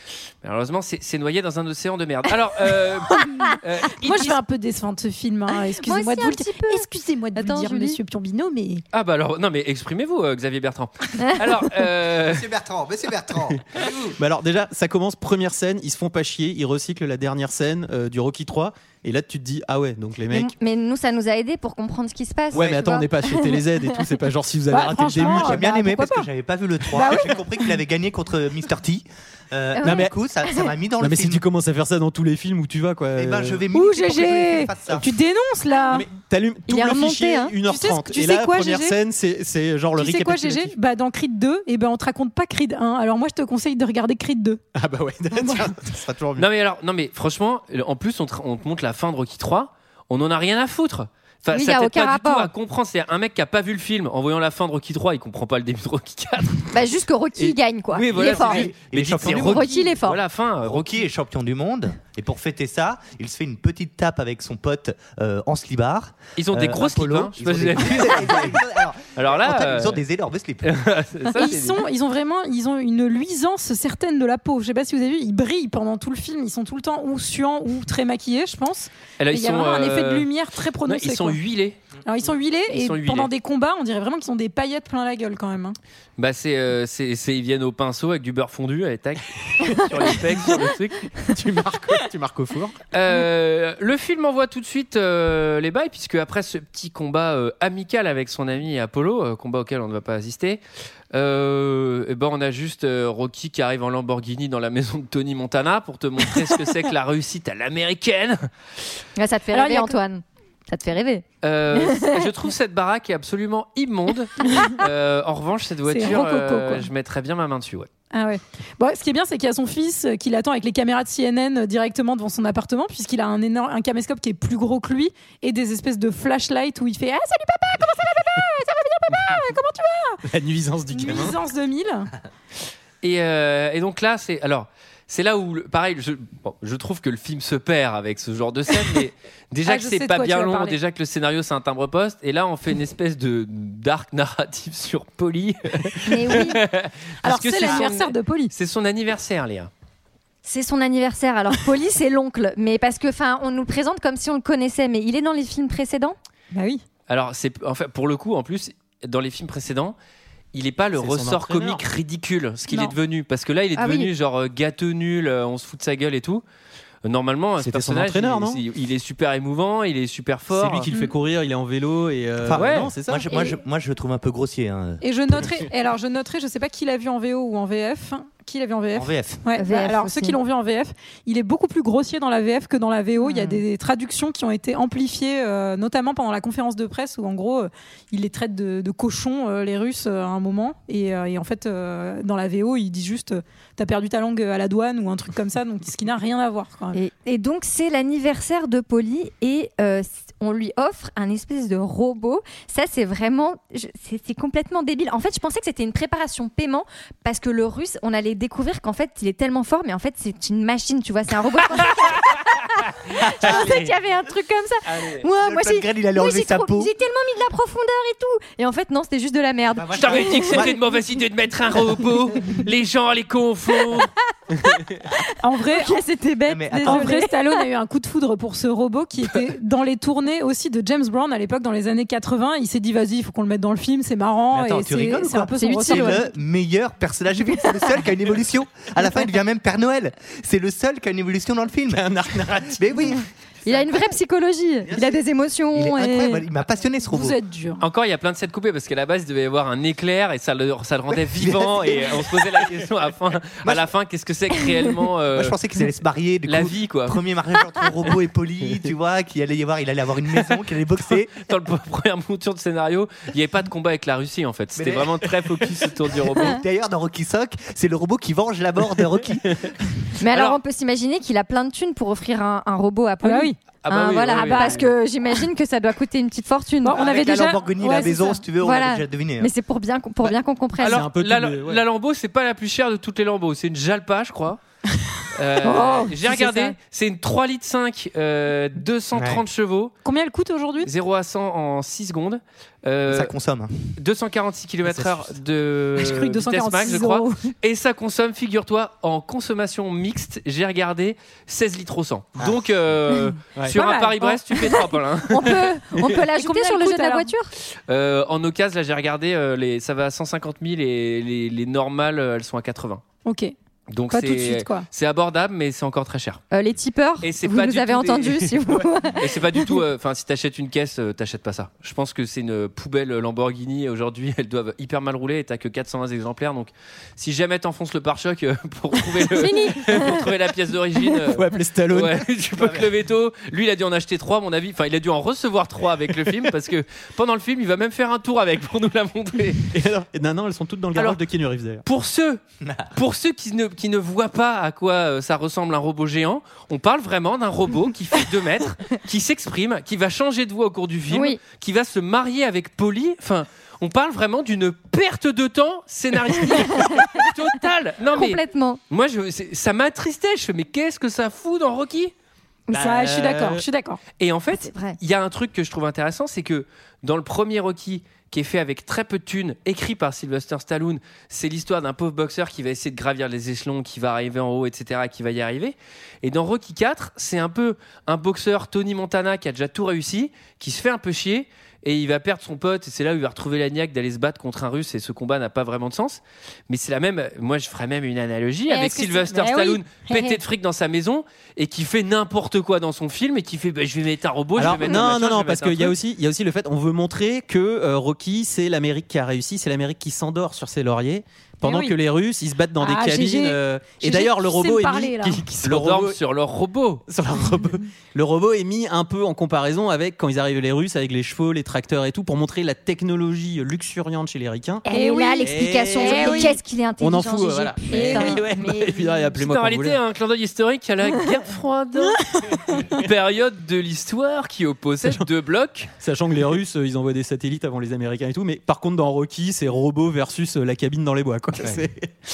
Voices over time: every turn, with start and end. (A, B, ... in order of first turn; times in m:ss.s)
0:00.4-0:04.4 A
0:04.0-0:08.8 B
0:05.7-0:08.0 C
0:08.9-0:12.5 A
0:12.2-0:13.6 D
0:14.2-0:20.5 E
0:20.3-0:23.7 C
0:22.5-0:22.9 D
0:22.5-0:25.6 E
0:24.7-0:26.3 B
0:25.2-0:31.4 D
0:26.9-0:27.4 B
0:29.7-0:30.6 C
0:29.8-0:30.1 E
0:31.0-0:33.6 E
0:33.2-0:35.1 D
0:33.7-0:36.1 B
0:35.9-0:40.7 E
0:36.7-0:37.6 C
0:37.6-0:39.0 B
0:40.0-0:44.6 B
0:44.8-0:46.5 E
0:45.3-0:45.7 B
0:46.4-0:56.8 A
0:51.5-0:52.5 C
0:56.7-1:00.2 C
0:57.4-1:01.0 A
0:58.1-0:59.8 D
1:00.6-1:10.8 D
1:06.4-1:08.6 A
1:09.2-1:10.0 A
1:10.6-1:11.8 A
1:11.4-1:21.4 B
1:19.2-1:20.3 A
1:20.8-1:21.8 A
1:22.0-1:25.8 B
1:22.7-1:23.3 A
1:26.2-1:31.1 A
1:31.3-1:32.8 E
1:32.9-1:40.6 A
1:41.1-1:48.5 A
1:49.2-1:52.3 C
1:49.5-1:50.0 B
1:51.4-1:57.9 A
1:55.9-1:56.9 B
1:58.1-2:10.2 B
2:10.3-2:11.4 E
2:10.9-2:12.1 B
2:13.0-2:29.7 A
2:19.7-2:20.8 B
2:26.1-2:26.6 C
2:27.2-2:28.5 B
2:30.4-2:36.2 C
2:36.5-2:36.8 B
2:37.1-2:40.0 A
2:40.5-2:46.4 A
2:41.0-2:41.8 E
2:43.8-2:44.1 C
2:47.0-2:50.9 A
2:47.6-2:48.6 E
2:50.5-2:53.3 E
2:52.4-2:55.4 D
2:52.5-2:52.9 A
2:55.0-3:17.0 B
2:59.0-2:59.4 D
2:59.6-3:00.4 C
3:03.2-3:03.6 C
3:16.9-3:40.7 C
3:31.8-3:33.9 A
3:34.9-3:35.2 A
3:35.4-3:36.9 D
3:39.8-3:40.8 D
3:39.9-3:44.1 A
3:45.3-3:47.6 C
3:45.4-3:46.0 B
3:46.5-3:47.1 D
3:46.7-3:56.3 B
3:54.5-4:03.2 D
3:55.6-3:56.2 C
4:01.9-4:03.2 E
4:03.7-4:06.4 C
4:05.7-4:07.4 D
4:07.1-4:07.8 B
4:07.8-4:15.6 A
4:11.3-4:12.8 D
4:13.6-4:13.9 D
4:15.3-4:21.3 D
4:16.5-4:17.2 A
4:21.4-4:26.6 A
4:24.8-4:25.3 D
4:26.3-4:29.7 D
4:30.2-4:37.1 C
4:30.3-4:30.6 A
4:33.2-4:33.6 B
4:33.8-4:34.9 A
4:34.3-4:34.8 B
4:36.8-4:38.4 B
4:36.9-4:39.5 D
4:38.6-4:41.1 C
4:40.2-4:41.8 E
4:40.8-4:44.6 A
4:45.3-4:49.9 A
4:45.6-4:46.8 B
4:49.1-4:49.4 D
4:50.0-4:50.9 B
4:50.8-4:53.3 A
4:53.1-4:53.9 D
4:54.0-5:05.7 A
4:54.8-4:55.3 E
4:56.0-4:57.5 B
5:02.4-5:02.6 D
5:03.7-5:04.9 B
5:05.3-5:07.5 C
5:06.4-5:07.3 B
5:07.7-5:13.0 A
5:13.2-5:13.5 B
5:13.9-5:16.4 A
5:14.1-5:14.9 B
5:16.5-5:19.8 C
5:17.2-5:39.7 A
5:29.3-5:30.3 C
5:31.3-5:32.3 E
5:32.6-5:32.9 D
5:39.7-5:41.8 E
5:41.0-5:41.2 A
5:41.8-5:42.4 A
5:42.6-5:42.9 D
5:42.9-6:02.1 A
5:51.1-5:51.4 C
5:56.5-5:57.3 C
5:58.1-5:58.8 C
6:02.7-6:03.6 E
6:02.7-6:04.0 B
6:04.2-6:36.0 A
6:04.6-6:05.0 C
6:28.7-6:30.4 B
6:28.9-6:29.3 C
6:34.6-6:46.2 E
6:41.6-6:42.0 B
6:42.8-6:45.4 B
6:45.6-6:47.0 A
6:47.1-6:54.8 E
6:54.8-6:59.2 C
6:54.9-6:56.6 B
6:55.4-7:00.0 E
6:57.9-6:58.4 B
6:59.4-7:02.2 A
7:02.9-7:05.9 A
7:06.0-7:12.1 E
7:11.6-7:11.8 D